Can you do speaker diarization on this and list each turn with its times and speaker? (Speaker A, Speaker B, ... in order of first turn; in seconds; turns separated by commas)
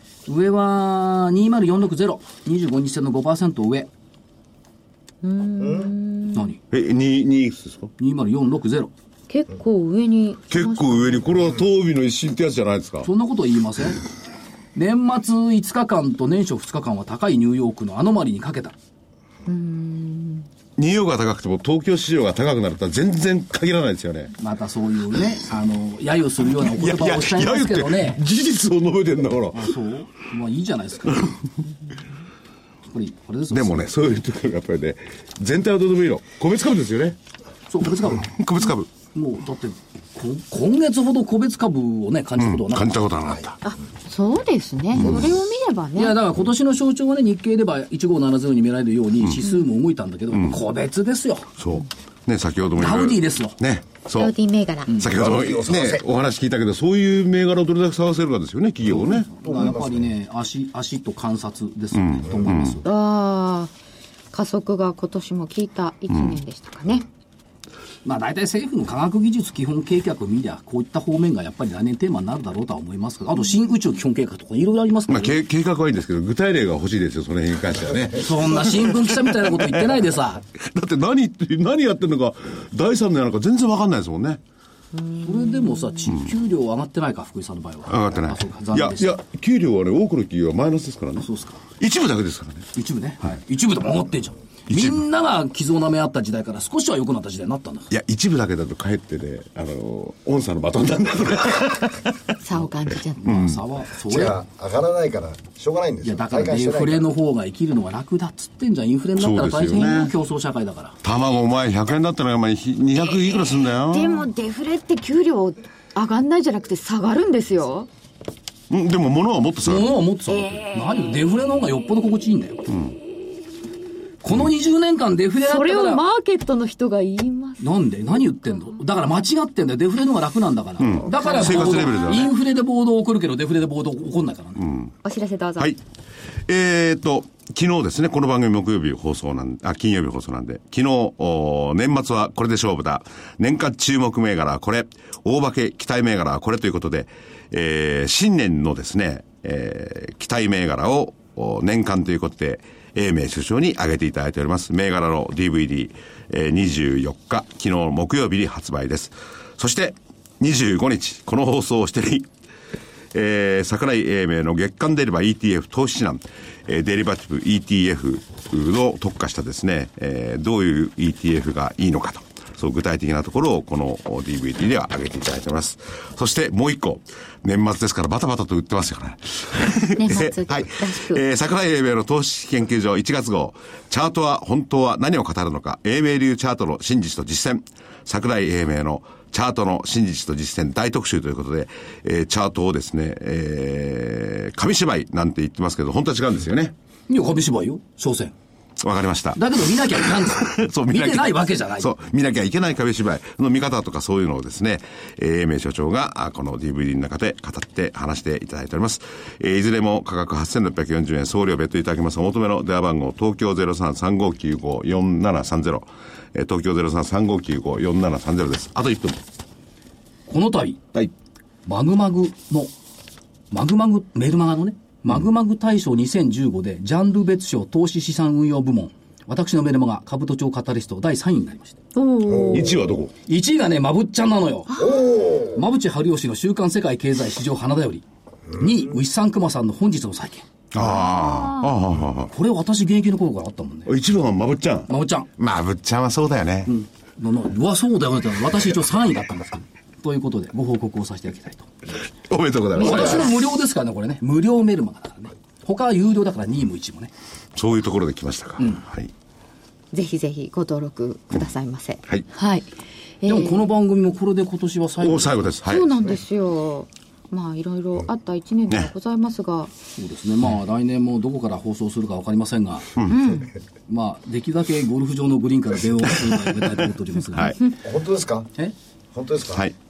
Speaker A: 0.3-3.9, Speaker B: 5.2-6.5, Speaker C: 5.6-5.9, Speaker A: 6.3-6.6, Speaker D: 6.7-7.9, Speaker A: 8.0-8.9, Speaker B: 9.3-11.3, Speaker D: 10.5-13.1, Speaker A: 13.0-14.0, Speaker A: 14.7-18.7, Speaker B: 19.4-20.5, Speaker D: 20.8-24.3, Speaker A: 24.4-28.2, Speaker D: 26.5-29.7, Speaker A: 29.5-31.3, Speaker A: 32.9-33.9, Speaker D: 33.5-37.2, Speaker A: 37.7-38.3, Speaker D: 38.2-38.9, Speaker A: 39.1-42.9, Speaker D: 42.4-43.6, Speaker B: 43.6-46.2, Speaker D: 44.9-45.3, Speaker A: 46.0-51.5, Speaker D: 51.6-54.3, Speaker A: 52.7-53.6, Speaker B: 54.1-55.0, Speaker D: 55.0-59.3, Speaker C: 55.0-56.0, Speaker A: 58.9-62.9, Speaker C: 59.0-60.1, Speaker D: 61.9-62.8, Speaker B: 62.8-63.7, Speaker B: 64.3-67.1, Speaker D: 66.1-66.4, Speaker A: 68.0-75.4, Speaker D: 75.1-84.4, Speaker A: 78.1-80.4, Speaker B: 85.1-85.9, Speaker A: 85.2-89.1, Speaker D: 87.9-92.7, Speaker A: 91.2-91.6, Speaker A: 92.7-97.9, Speaker D: 94.7-95.0, Speaker D: 97.9-102.6, Speaker B: 102.4-103.4, Speaker A: 103.2-104.3, Speaker D: 103.2-103.6, Speaker C: 104.1-107.1, Speaker A: 106.0-111.0, Speaker D: 109.2-110.1, Speaker D: 111.0-114.3, Speaker B: 113.9-117.9, Speaker D: 118.7-119.9, Speaker A: 119.6-122.7, Speaker D: 122.7-123.0, Speaker A: 124.2-126.0, Speaker B: 125.4-127.7, Speaker A: 127.6-134.7, Speaker D: 130.8-132.3, Speaker B: 131.1-132.2, Speaker D: 134.6-134.9, Speaker B: 135.0-135.7, Speaker D: 136.4-162.3, Speaker D: 163.1-196.7, Speaker B: 179.9-181.2, Speaker A: 197.1-198.3, Speaker D: 198.8-219.2, Speaker A: 199.3-201.9, Speaker A: 220.3-220.9, Speaker A: 221.7-222.7, Speaker A: 223.5-231.8, Speaker B: 231.9-232.8, Speaker C: 232.3-232.7, Speaker D: 232.4-233.1, Speaker A: 233.2-234.9, Speaker C: 234.8-235.6, Speaker A: 235.5-238.0, Speaker A: 238.6-240.5, Speaker D: 240.7-242.3, Speaker B: 240.8-241.7, Speaker A: 242.3-243.9, Speaker D: 243.9-246.7, Speaker A: 244.9-245.3, Speaker A: 246.7-251.7, Speaker D: 252.3-253.3, Speaker B: 252.7-253.4, Speaker A: 252.7-257.1, Speaker D: 257.5-259.1, Speaker A: 258.6-258.8, Speaker B: 259.9-262.7, Speaker B: 263.2-263.6, Speaker A: 263.2-265.6, Speaker D: 265.0-265.9, Speaker B: 265.6-269.7, Speaker A: 269.9-272.9, Speaker B: 273.1-273.5, Speaker A: 273.9-277.6, Speaker C: 277.8-278.5, Speaker C: 279.1-279.6